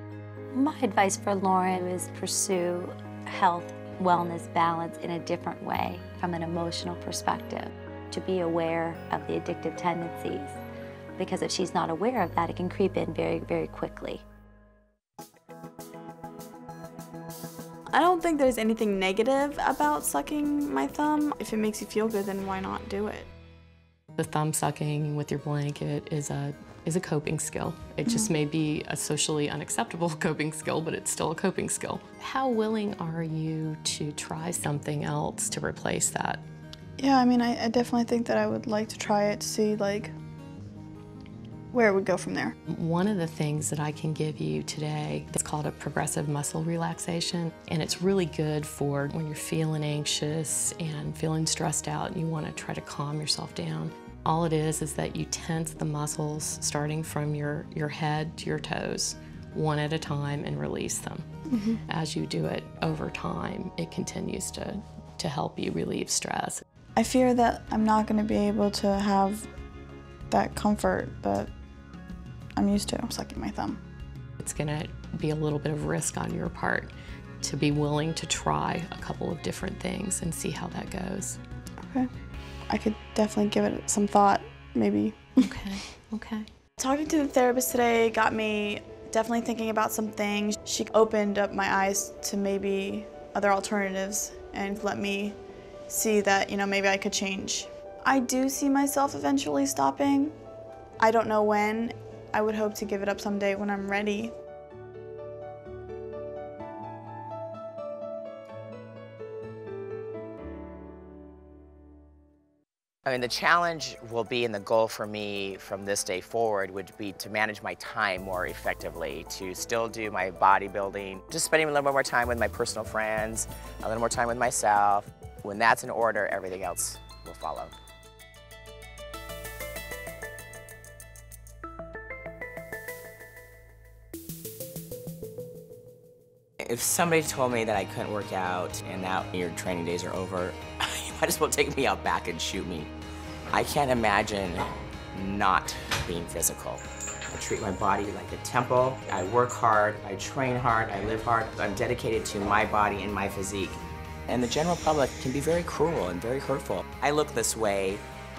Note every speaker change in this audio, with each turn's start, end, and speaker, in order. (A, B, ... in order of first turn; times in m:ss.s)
0:00.5-0:10.6 A
0:11.2-0:14.2 A
0:17.9-0:23.3 B
0:24.2-0:36.4 C
0:28.0-0:28.3 B
0:37.0-0:40.1 B
0:41.7-0:42.5 B
0:42.7-1:01.2 C
1:01.5-1:01.8 B
1:01.9-1:06.6 C
1:07.0-1:09.5 B
1:10.3-1:11.5 B
1:12.6-1:13.8 B
1:14.4-1:21.4 C
1:21.8-1:22.1 B
1:22.7-1:25.4 B
1:25.4-1:26.5 C
1:26.8-1:40.4 B
1:41.0-1:44.3 B
1:53.0-2:07.7 D
2:16.6-2:22.9 D
2:23.5-2:38.0 D